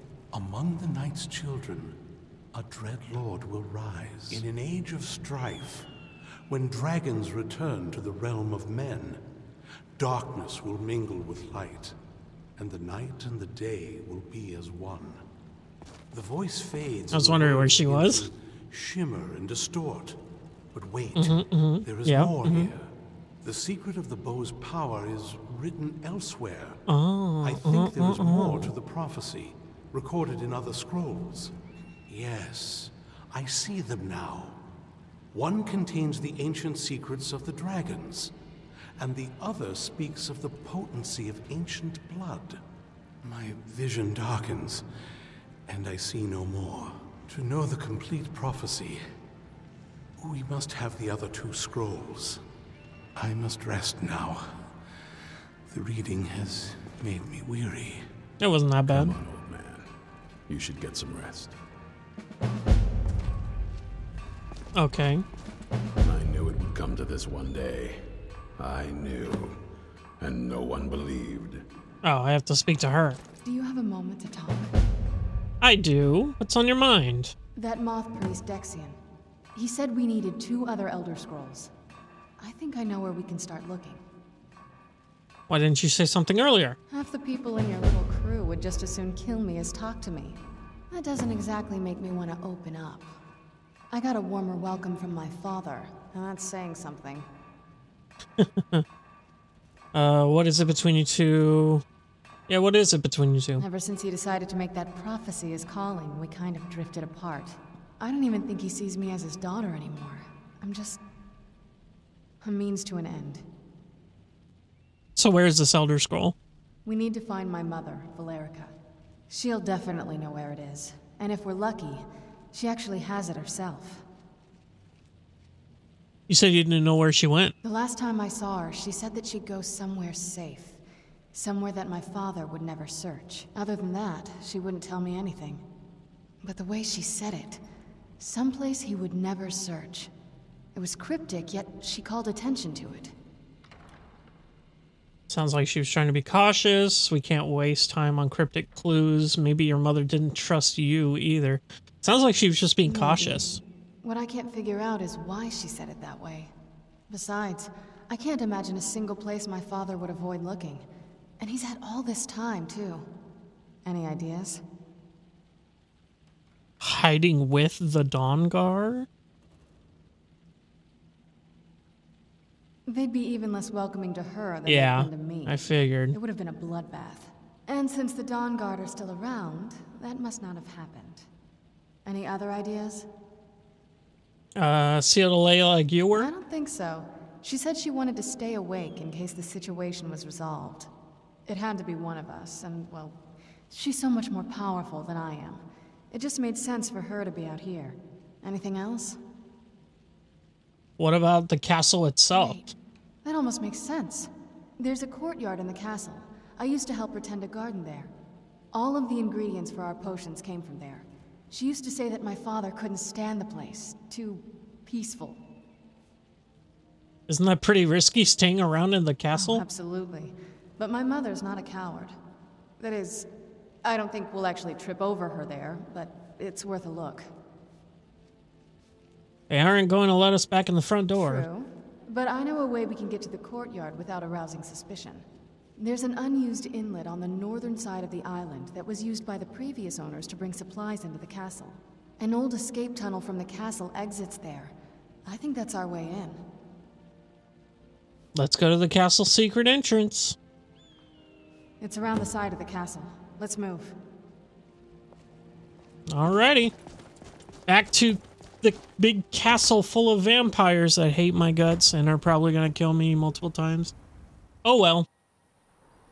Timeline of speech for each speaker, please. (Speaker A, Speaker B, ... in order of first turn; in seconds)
Speaker A: 0.3-2.0, 2.5-5.9, 6.5-9.2, 10.0-11.9, 12.6-15.2, 16.1-20.2, 20.7-22.9, 23.4-26.8, 27.4-31.5, 32.1-34.6, 35.3-38.3, 39.0-42.6, 43.2-44.8, 45.7-49.0, 50.2-52.4, 53.1-54.5, 55.7-58.0
Speaker B: 17.1-18.3, 21.1-22.7, 26.9-28.7, 58.4-59.1, 64.8-65.2, 72.0-73.2, 75.6-77.3, 85.5-86.8, 98.4-98.8, 99.9-101.8, 102.5-103.6, 115.2-116.3, 126.3-127.5, 145.3-153.6, 166.8-169.1, 174.7-176.2, 184.6-186.3, 201.0-202.6, 217.3-219.6, 229.5-231.4, 248.3-250.3, 256.1-256.7, 257.7-263.9, 264.6-265.1
Speaker C: 58.9-59.9, 60.5-61.5, 66.0-68.0, 68.6-69.5, 70.2-71.6
Speaker D: 73.4-74.7, 77.5-79.0, 79.5-81.7, 82.4-84.0, 86.9-90.4, 90.9-93.1, 93.9-97.3, 103.6-111.0, 112.4-113.4, 116.8-118.7, 119.3-124.0, 127.6-130.8, 131.3-135.6, 136.4-137.6, 138.2-140.1, 140.7-143.1, 152.8-153.5, 154.0-156.5, 157.1-160.9, 161.4-163.1, 163.8-164.6, 172.8-181.3, 182.0-183.1, 186.1-190.9, 191.4-199.2, 202.3-202.7, 203.2-208.1, 208.7-215.4, 219.3-222.1, 222.8-223.3, 223.8-227.3, 231.1-235.2, 235.8-246.4, 251.8-254.0